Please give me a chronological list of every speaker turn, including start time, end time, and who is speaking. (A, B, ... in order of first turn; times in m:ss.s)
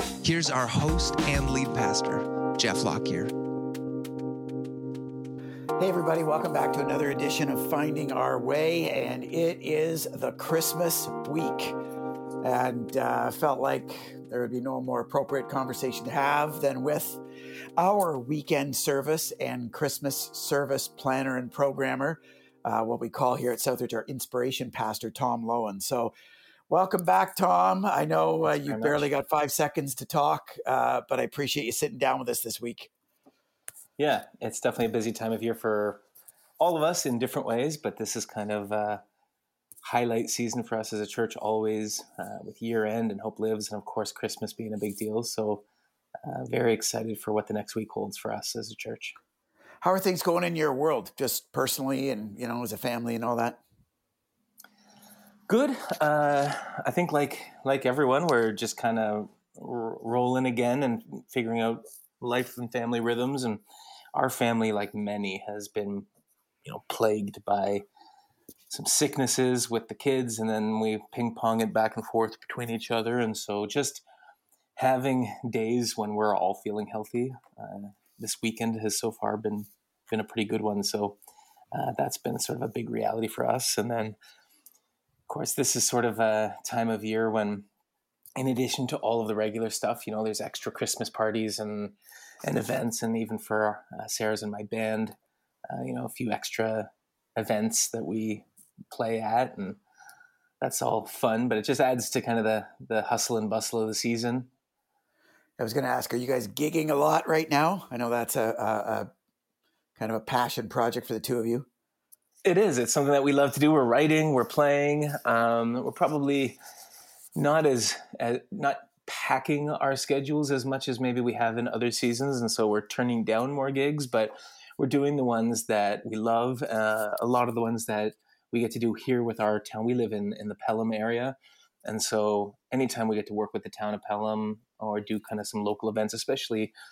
0:00.2-0:03.3 A
0:05.8-0:11.8 B
0:12.4-0:17.2 B
0:17.8-0:26.1 B
0:26.7-0:32.9 B
0:28.4-0:29.1 C
0:34.0-0:36.0 C
0:36.6-0:39.0 C
0:39.8-0:45.6 C
0:46.2-0:49.1 C
0:49.8-0:53.6 B
0:55.5-1:03.6 C
1:04.2-1:06.1 C
1:06.6-1:07.8 C
1:08.7-1:14.0 C
1:14.8-1:21.2 C
1:21.7-1:24.2 C
1:25.3-1:27.7 C
1:28.4-1:35.1 C
1:35.7-1:39.8 C
1:40.6-1:44.5 C
1:45.6-1:49.1 B
1:50.0-1:51.7 B
1:52.4-1:56.6 C
1:57.4-2:16.7 C